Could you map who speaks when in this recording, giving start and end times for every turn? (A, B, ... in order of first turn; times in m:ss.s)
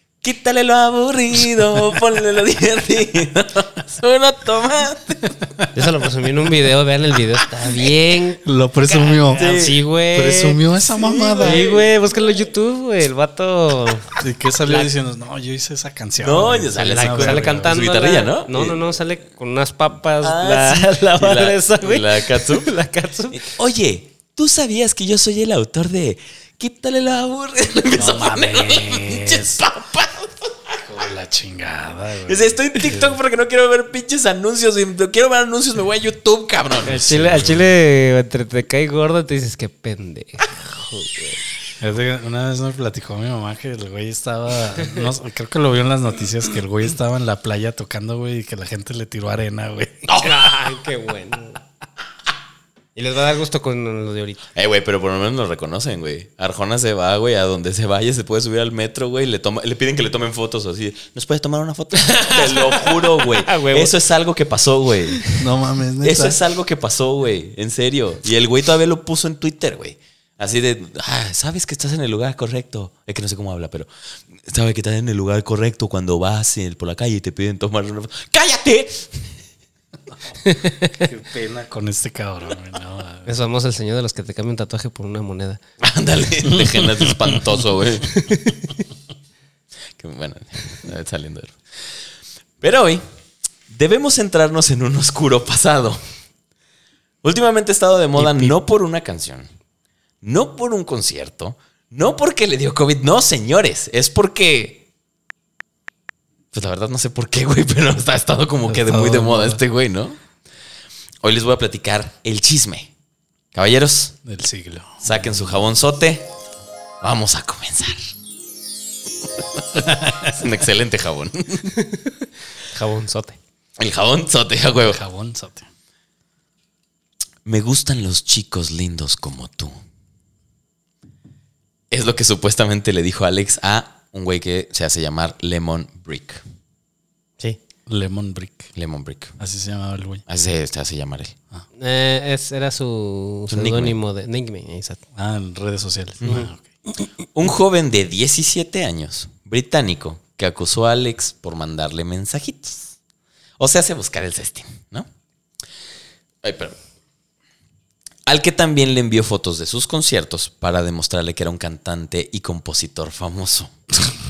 0:00.2-0:05.4 A
0:05.7-0:08.4 B
0:08.4-0:11.7 C
0:09.1-0:09.8 A
0:09.3-0:10.6 B
0:11.0-0:11.9 A
0:11.4-0:14.2 B
0:14.2-0:17.7 C
0:16.2-0:18.8 A
0:16.8-0:23.5 B
0:20.2-0:22.7 A
0:23.3-0:30.8 A
0:27.9-0:29.6 C
0:30.8-0:33.2 C
0:32.3-0:37.0 A
0:36.8-0:37.7 C
0:36.8-0:41.4 B
0:41.8-0:50.2 C
0:50.1-0:50.6 A
0:50.2-0:51.6 B
0:53.0-0:54.4 B
0:54.6-1:05.3 A
1:02.0-1:03.9 B
1:05.3-1:06.4 C
1:06.0-1:13.9 A
1:14.5-1:19.1 A
1:20.4-1:21.0 B
1:20.8-1:23.3 C
1:23.3-1:25.6 B
1:25.8-1:28.2 A
1:26.5-1:27.4 C
1:28.1-1:28.8 B
1:30.0-1:31.6 A
1:32.6-1:33.0 A
1:33.7-1:36.0 A
1:37.2-1:39.5 A
1:38.2-1:38.5 C
1:40.2-1:44.8 A
1:46.5-1:50.2 A
1:48.7-1:49.6 C
1:51.2-1:52.9 A
1:53.5-1:54.1 A
1:54.2-1:55.5 C
1:55.0-1:56.3 A
1:57.0-1:58.0 A
1:59.8-2:00.4 C
2:00.1-2:01.8 A
2:01.8-2:02.1 B
2:02.7-2:03.4 B
2:03.8-2:05.0 A
2:04.8-2:05.7 C
2:07.5-2:09.8 A
2:11.9-2:16.4 A
2:17.9-2:18.7 C
2:18.8-2:19.4 A
2:19.4-2:20.2 C
2:20.3-2:21.4 A
2:21.8-2:25.0 B
2:23.5-2:24.0 A
2:25.2-2:26.6 C
2:26.2-2:26.5 A
2:27.3-2:33.0 A
2:33.6-2:35.1 A
2:36.4-2:36.8 A
2:38.3-2:43.7 A